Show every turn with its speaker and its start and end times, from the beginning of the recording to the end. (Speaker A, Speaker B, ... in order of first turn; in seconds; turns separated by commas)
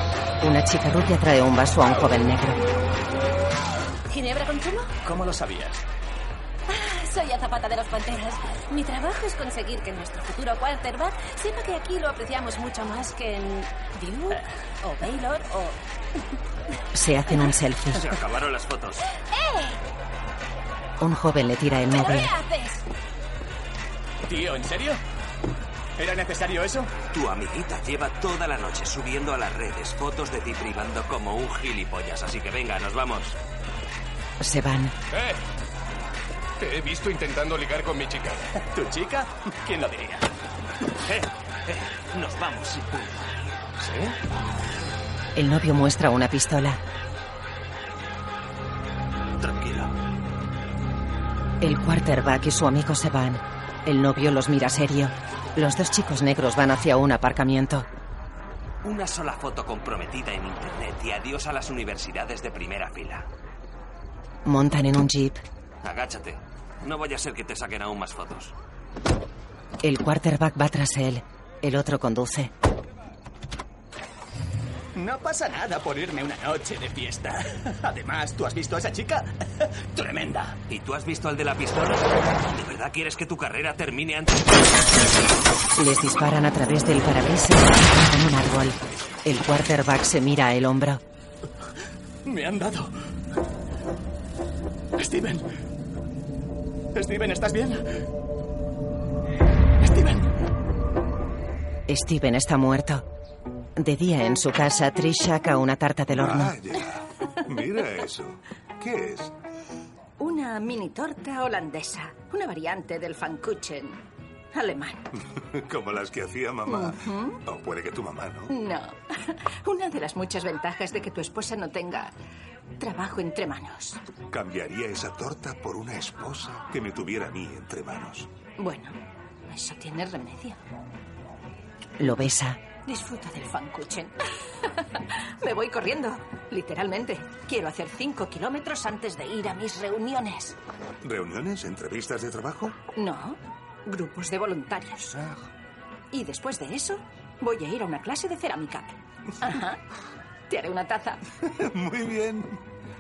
Speaker A: 0.4-2.6, Speaker B: 4.1-4.9, Speaker C: 5.0-5.8, Speaker B: 6.7-15.8, Speaker A: 16.9-18.1, Speaker D: 17.9-19.0, Speaker B: 19.3-19.8, Speaker A: 21.0-22.3, Speaker B: 21.9-22.8, Speaker C: 24.2-25.0, Speaker C: 26.0-26.9, Speaker D: 27.0-33.4, Speaker A: 34.4-34.9, Speaker E: 35.1-35.4, Speaker E: 36.6-38.5, Speaker C: 38.5-40.3, Speaker D: 41.0-43.3, Speaker A: 45.3-46.8, Speaker D: 49.4-49.9, Speaker A: 51.6-57.9, Speaker D: 58.8-63.3, Speaker A: 64.4-65.4, Speaker D: 65.8-68.5, Speaker A: 69.8-72.5, Speaker C: 74.9-80.6, Speaker D: 80.7-85.1, Speaker A: 85.8-91.0, Speaker C: 92.2-92.9, Speaker C: 95.0-95.5, Speaker C: 96.9-97.9, Speaker C: 99.8-100.3, Speaker A: 101.9-103.0, Speaker A: 103.8-106.5, Speaker F: 106.1-109.3, Speaker G: 110.2-115.1, Speaker F: 115.3-118.5, Speaker G: 116.7-117.4, Speaker G: 118.5-122.1, Speaker G: 122.8-124.0, Speaker F: 124.3-128.3, Speaker G: 128.6-130.6, Speaker A: 132.0-132.6, Speaker G: 132.8-140.6, Speaker F: 141.0-142.8, Speaker G: 142.9-145.2, Speaker F: 145.2-145.4, Speaker G: 146.1-149.8, Speaker G: 150.5-151.2, Speaker F: 151.4-152.6